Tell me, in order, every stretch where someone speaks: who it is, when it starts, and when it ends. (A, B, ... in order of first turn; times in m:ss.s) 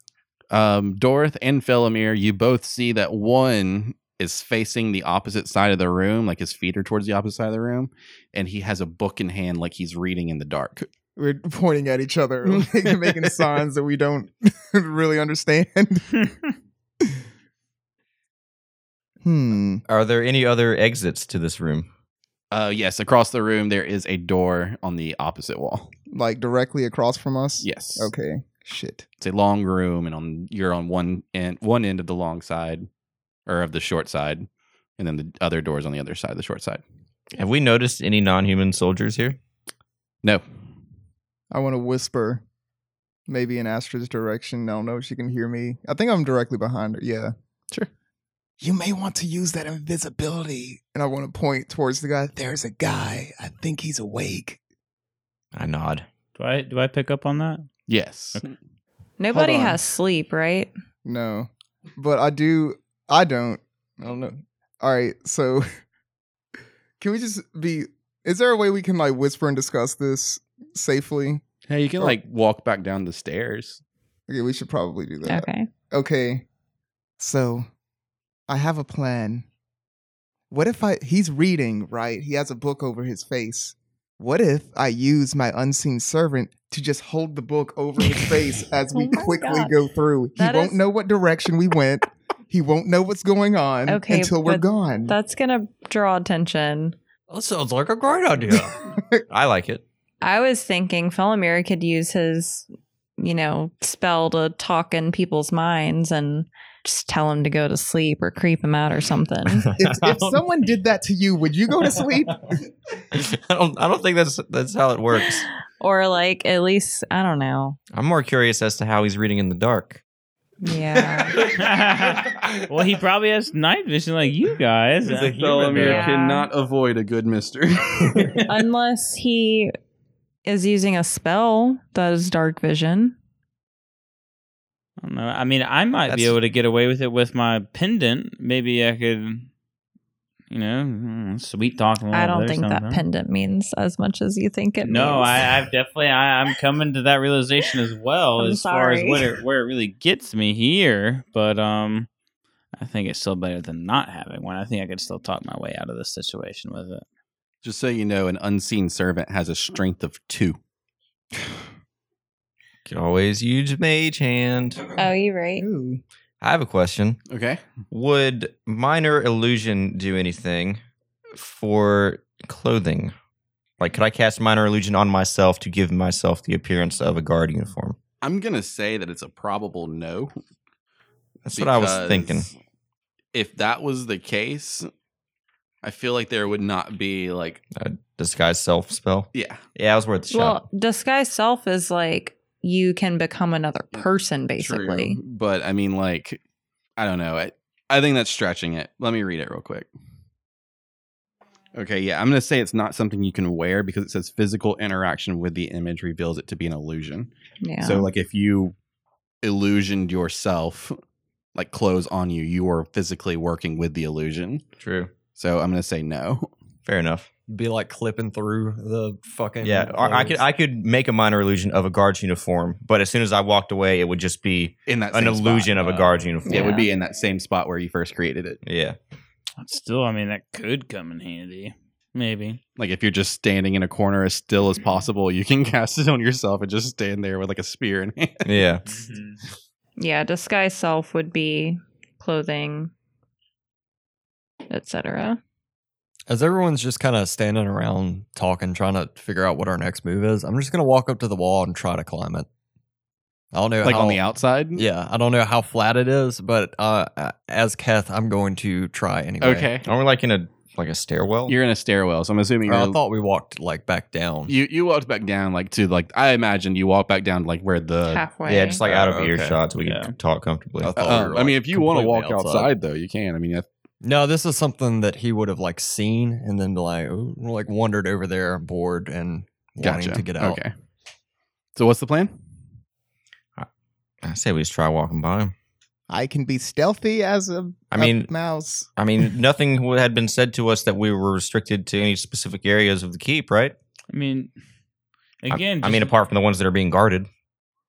0:00.5-0:10.9 A
0:11.2-0:16.3 B
0:12.4-0:13.4 A
0:19.2-0:19.8 B
0:19.9-0:21.9 C
0:22.5-0:25.9 A
0:26.1-0:29.0 B
0:27.6-0:28.1 A
0:29.2-0:32.9 A
0:33.5-0:36.8 A
0:37.4-0:39.4 C
0:41.5-0:42.4 B
0:43.3-0:47.3 B
0:48.6-0:54.6 B
0:55.5-0:56.0 C
0:56.4-0:57.7 D
0:57.9-0:58.5 A
0:59.2-1:00.7 E
0:59.3-0:59.8 B
1:01.0-1:05.6 B
1:07.0-1:11.4 B
1:11.7-1:13.8 A
1:14.3-1:16.4 B
1:15.2-1:15.7 E
1:17.2-1:17.6 B
1:18.5-1:19.4 B
1:20.5-1:35.1 B
1:28.9-1:29.7 E
1:30.4-1:30.8 E
1:33.9-1:37.0 E
1:37.3-1:38.8 F
1:39.3-1:39.8 C
1:40.2-1:42.7 E
1:43.2-1:49.7 E
1:49.8-1:52.6 B
1:49.8-1:50.4 C
1:53.1-1:55.4 C
1:55.2-1:57.8 E
1:57.9-2:00.0 C
2:00.6-2:01.4 E
2:01.4-2:05.4 D
2:05.0-2:06.0 F
2:05.3-2:08.5 A
2:05.8-2:06.5 E
2:08.4-2:09.7 E
2:10.4-2:13.2 E
2:15.0-2:19.5 D
2:20.5-2:23.0 D
2:22.1-2:25.5 E
2:24.8-2:32.1 D
2:28.4-2:29.4 E
2:32.8-2:37.0 D
2:37.6-2:40.6 A
2:42.8-2:44.9 C
2:45.0-2:45.6 E
2:45.6-2:46.0 B
2:46.4-2:47.2 C
2:47.3-2:47.6 A
2:47.9-2:50.8 C
2:51.3-2:53.1 C
2:53.8-2:58.0 C
2:58.2-3:00.4 A
3:01.4-3:02.5 C
3:01.5-3:02.5 A
3:03.3-3:04.9 A
3:05.8-3:07.6 A
3:07.7-3:10.6 C
3:09.3-3:09.6 A
3:10.3-3:15.2 E
3:14.6-3:16.4 A
3:17.0-3:19.9 A
3:21.7-3:27.3 A
3:27.6-3:28.1 E
3:27.8-3:28.8 A
3:29.4-3:31.0 A
3:31.5-3:34.6 A
3:34.8-3:35.1 C
3:35.4-3:36.5 A
3:36.8-3:37.3 C
3:37.5-3:40.4 F
3:39.6-3:46.8 C
3:44.9-3:48.6 A
3:46.4-3:46.9 E
3:48.6-3:49.0 C
3:49.6-3:52.6 D
3:52.8-3:58.5 A
3:58.4-3:58.8 C
3:58.8-3:59.4 D
4:00.0-4:02.9 E
4:04.7-4:05.4 E
4:06.3-4:12.5 F
4:13.5-4:14.2 F
4:13.8-4:14.8 A
4:14.7-4:19.7 F
4:19.4-4:19.8 A
4:19.8-4:21.5 C
4:21.5-4:23.0 A
4:22.6-4:24.5 F
4:24.5-4:28.2 A
4:28.1-4:28.8 E
4:28.4-4:31.3 C
4:28.8-4:29.6 F
4:29.8-4:30.1 D
4:30.8-4:32.7 F
4:31.0-4:33.7 A
4:34.0-4:40.6 F
4:39.8-4:40.7 A
4:41.8-4:42.4 A
4:44.2-4:45.5 C
4:46.1-4:48.9 B
4:47.9-4:48.3 C
4:49.0-4:53.7 C
4:54.1-4:54.5 D
4:55.4-4:56.1 D
4:55.5-4:57.3 C